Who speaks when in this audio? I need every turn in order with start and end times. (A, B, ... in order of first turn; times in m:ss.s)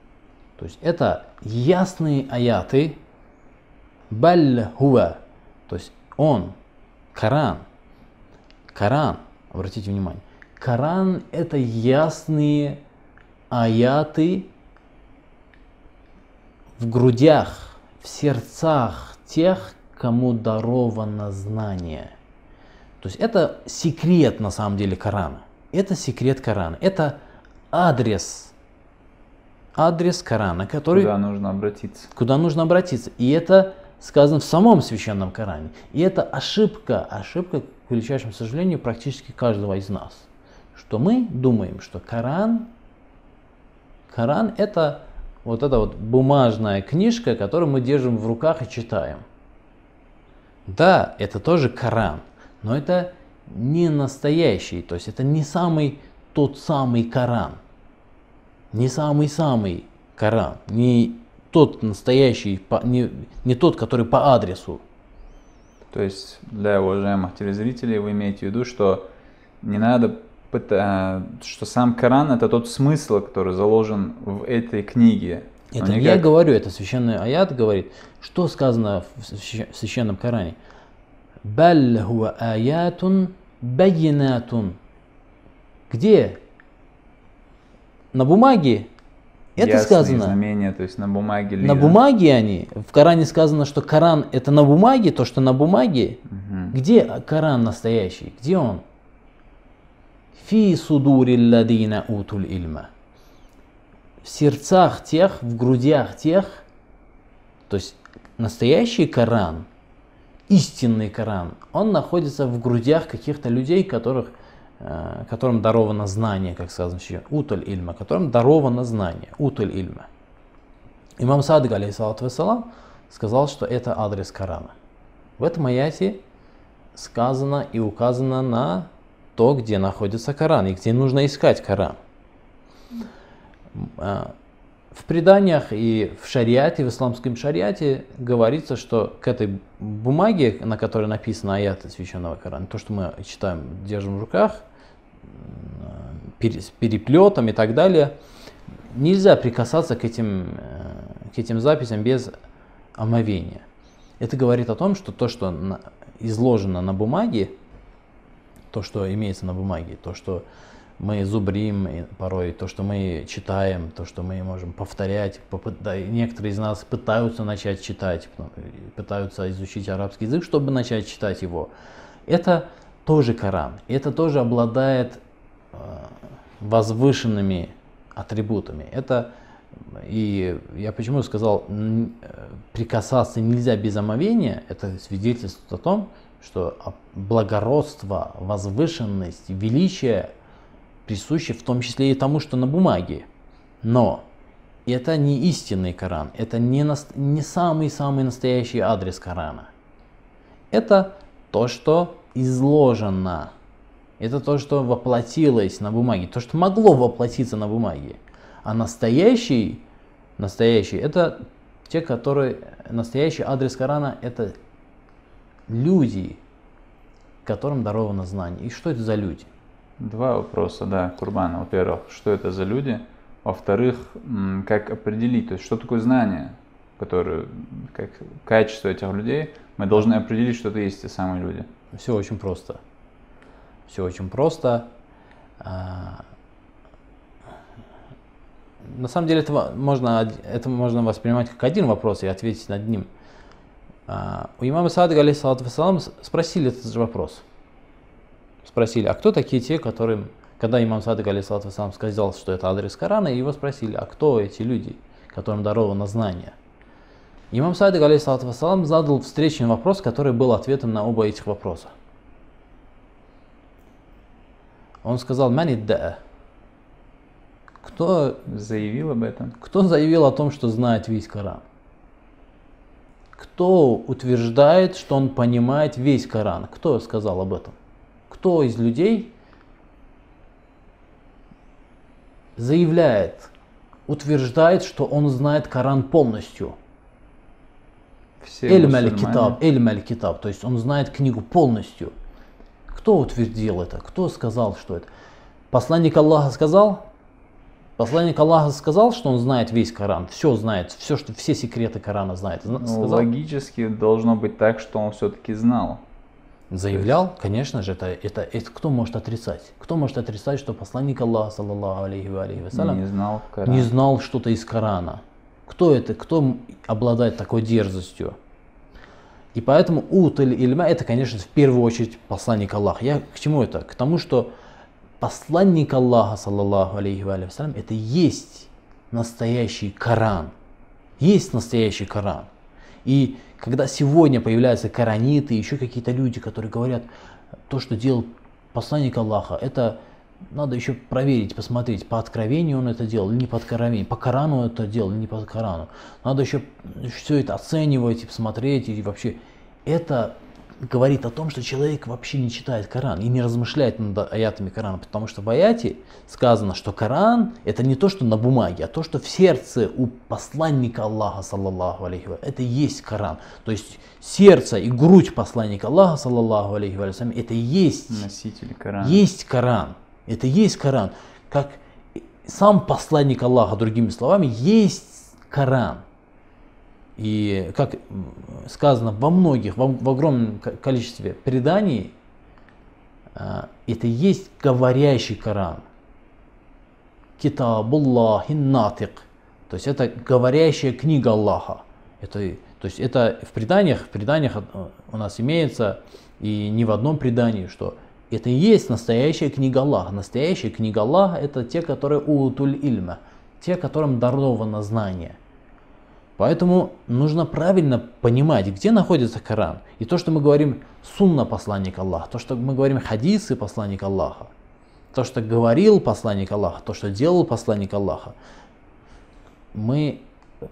0:00.6-0:03.0 A
0:04.1-0:06.5 A
0:07.1-0:07.6 A
0:08.7-0:12.8 A
0:13.5-0:14.5 A
0:16.8-0:22.1 A
0:23.0-0:27.2 A
0:27.7-0:28.5 A
0:29.8-0:31.1 A
0:30.9-0:32.1 B
0:32.1-0:42.7 A
0:44.1-0:49.2 A
0:50.7-0:57.6 A
0:58.7-1:04.8 A
1:05.9-1:09.1 B
1:09.6-1:16.3 B
1:15.7-1:20.6 A
1:21.4-1:24.8 A
1:25.9-1:26.4 A
1:28.1-1:28.9 A
1:29.6-1:30.4 A
1:29.6-1:32.0 B
1:31.6-1:38.8 A
1:36.3-1:36.8 B
1:40.3-1:42.9 A
1:44.2-1:46.6 A
1:47.7-1:49.7 A
1:50.5-2:00.1 A
2:01.2-2:04.7 A
2:05.4-2:06.2 A
2:07.0-2:12.0 A
2:13.7-2:14.3 A
2:14.9-2:24.6 A
2:25.3-2:28.1 A
2:28.9-2:32.3 A
2:33.0-2:33.6 A
2:34.2-2:37.5 A
2:38.7-2:40.4 A
2:41.0-2:51.7 A
2:52.3-2:55.2 A
2:55.7-2:59.3 A
2:59.8-3:10.3 A
3:11.0-3:13.3 A
3:13.8-3:14.2 A
3:14.8-3:19.7 A
3:20.7-3:23.5 A
3:24.2-3:29.8 A
3:30.4-3:34.6 A
3:35.7-3:36.4 A
3:37.4-3:39.5 A
3:40.0-3:51.7 B
3:51.9-3:52.8 A
3:53.9-3:54.9 A
3:55.6-3:56.2 A
3:58.9-4:03.1 A
4:04.1-4:07.4 A
4:08.6-4:16.6 A
4:17.5-4:21.9 A
4:25.0-4:26.2 A
4:27.8-4:28.4 A
4:28.5-4:29.5 B
4:29.6-4:31.6 A
4:33.4-4:37.8 A
4:38.3-4:39.3 A
4:42.6-4:43.5 A
4:44.1-4:46.8 A
4:48.4-4:49.6 B
4:48.6-4:52.1 A
4:52.9-4:55.1 A
4:55.7-4:57.0 A
4:58.0-5:03.3 A
5:02.8-5:06.0 B
5:06.7-5:13.0 A
5:12.7-5:13.9 B
5:13.6-5:18.4 A
5:19.5-5:24.5 A
5:25.2-5:30.5 A
5:31.2-5:32.5 A
5:33.0-5:37.1 A
5:37.7-5:40.0 A
5:40.5-6:08.3 A
6:08.1-6:09.2 B
6:09.0-6:16.0 A
6:17.2-6:22.1 A
6:23.4-6:25.8 A
6:27.4-6:45.4 A
6:46.4-6:54.5 A
6:55.1-6:58.3 A
6:59.7-7:00.2 A